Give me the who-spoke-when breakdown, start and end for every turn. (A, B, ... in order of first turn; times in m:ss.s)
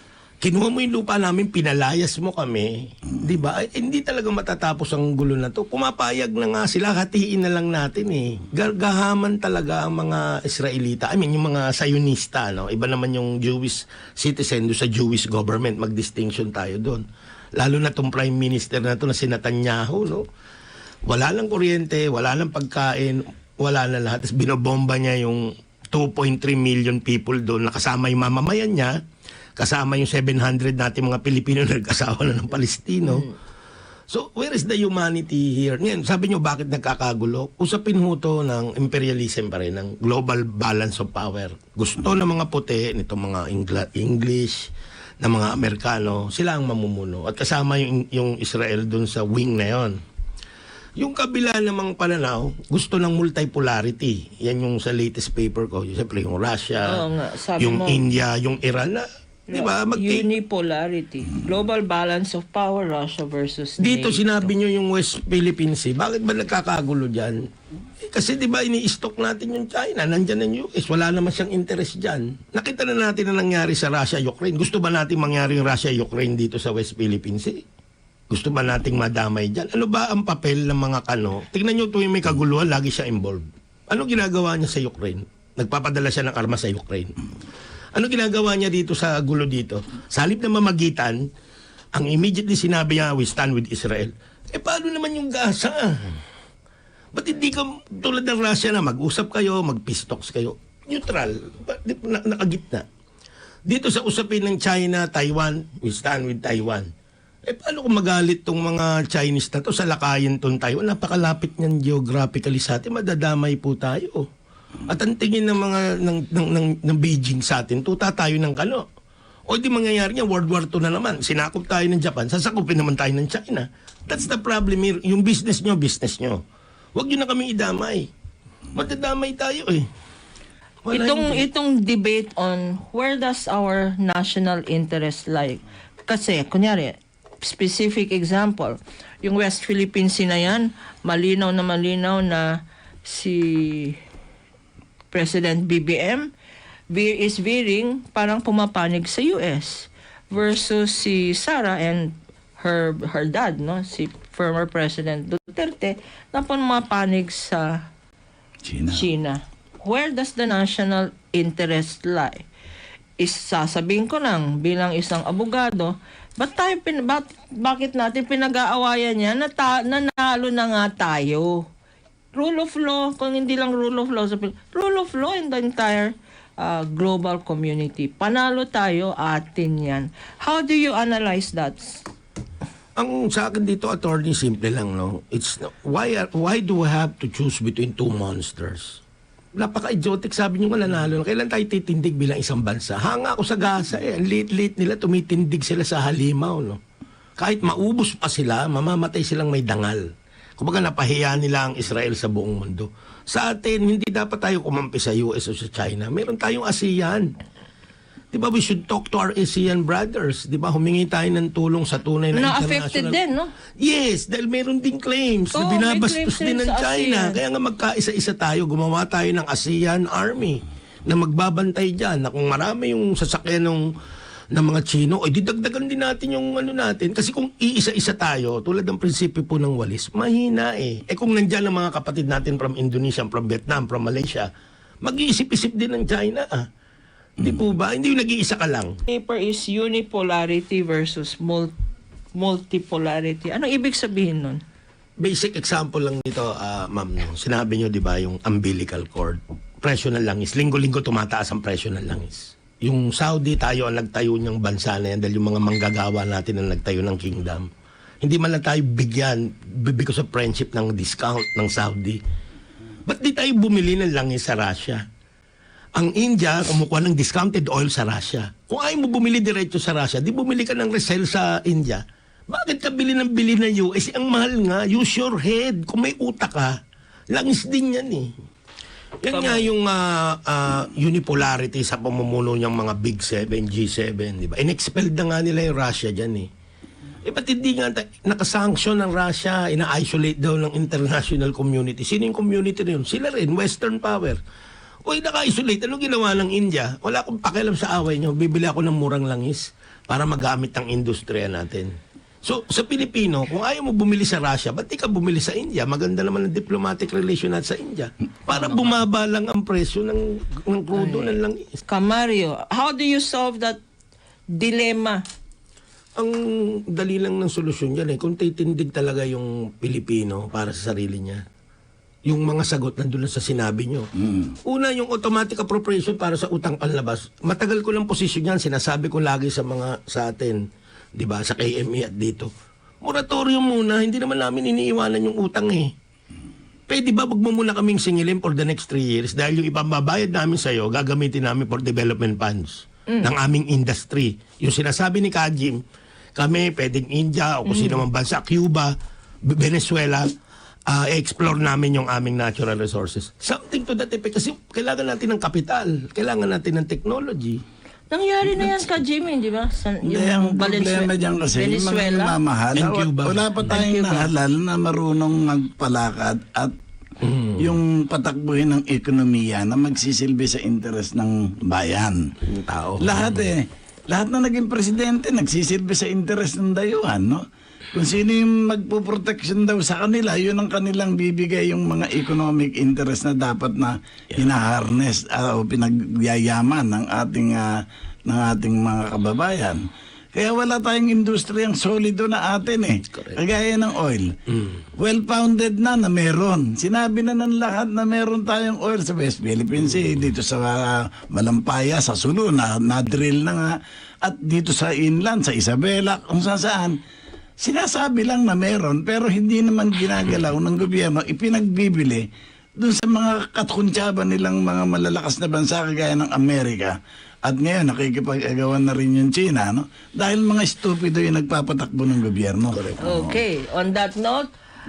0:00.4-0:17.0 A
0:17.6-0:20.2 A
0:21.1-0:29.0 A
0:29.6-0:33.3 A
0:34.1-0:50.0 A
0:51.0-0:57.0 A
0:56.9-0:58.0 B
0:57.6-1:00.3 A
0:59.5-1:04.5 B
1:03.8-1:07.4 A
1:08.0-1:17.6 A
1:18.3-1:27.1 A
1:27.9-1:31.2 A
1:32.0-1:36.2 A
1:37.1-1:42.8 A
1:43.7-1:46.9 A
1:47.4-1:54.3 A
1:54.9-1:58.8 A
1:59.5-2:06.4 A
2:06.9-2:08.1 A
2:08.7-2:09.9 A
2:10.8-2:11.5 A
2:10.9-2:24.0 B
2:25.1-2:26.3 B
2:26.9-2:37.8 B
2:38.6-2:39.0 C
2:38.9-2:42.4 B
2:43.2-2:51.6 B
2:52.3-3:02.0 B
3:03.0-3:09.0 A
3:09.6-3:16.8 A
3:17.4-3:20.0 A
3:20.6-3:27.3 A
3:28.3-3:33.2 A
3:32.3-3:33.5 B
3:33.8-3:43.8 A
3:35.5-3:37.4 B
3:44.5-3:54.5 A
3:55.0-3:56.6 A
3:57.4-3:59.0 A
3:59.1-4:01.7 B
4:02.3-4:04.6 B
4:05.2-4:17.7 A
4:18.2-4:22.2 A
4:23.1-4:25.0 A
4:26.0-4:36.8 A
4:37.3-4:38.3 A
4:39.2-4:46.5 A
4:39.3-4:39.7 B
4:47.2-4:54.4 A
4:55.0-5:01.9 A
5:02.4-5:11.8 A
5:11.0-5:13.8 B
5:14.5-5:15.2 B
5:16.2-5:21.4 A
5:22.3-5:24.1 A
5:24.6-5:30.6 A
5:31.1-5:32.5 A
5:33.0-5:35.9 A
5:36.9-5:45.8 A
5:46.3-5:50.3 A
5:47.7-5:48.0 B
5:50.9-5:57.6 A
5:58.1-6:02.4 B
6:00.0-6:06.7 C
6:02.8-6:03.5 A
6:03.6-6:04.3 B
6:07.2-6:07.6 A
6:07.6-6:12.3 C
6:12.4-6:13.5 A
6:13.0-6:17.4 C
6:17.9-6:29.8 C
6:30.3-6:34.4 C
6:35.0-6:47.0 C
6:47.6-6:52.2 C
6:52.8-7:03.4 C
7:03.0-7:04.5 B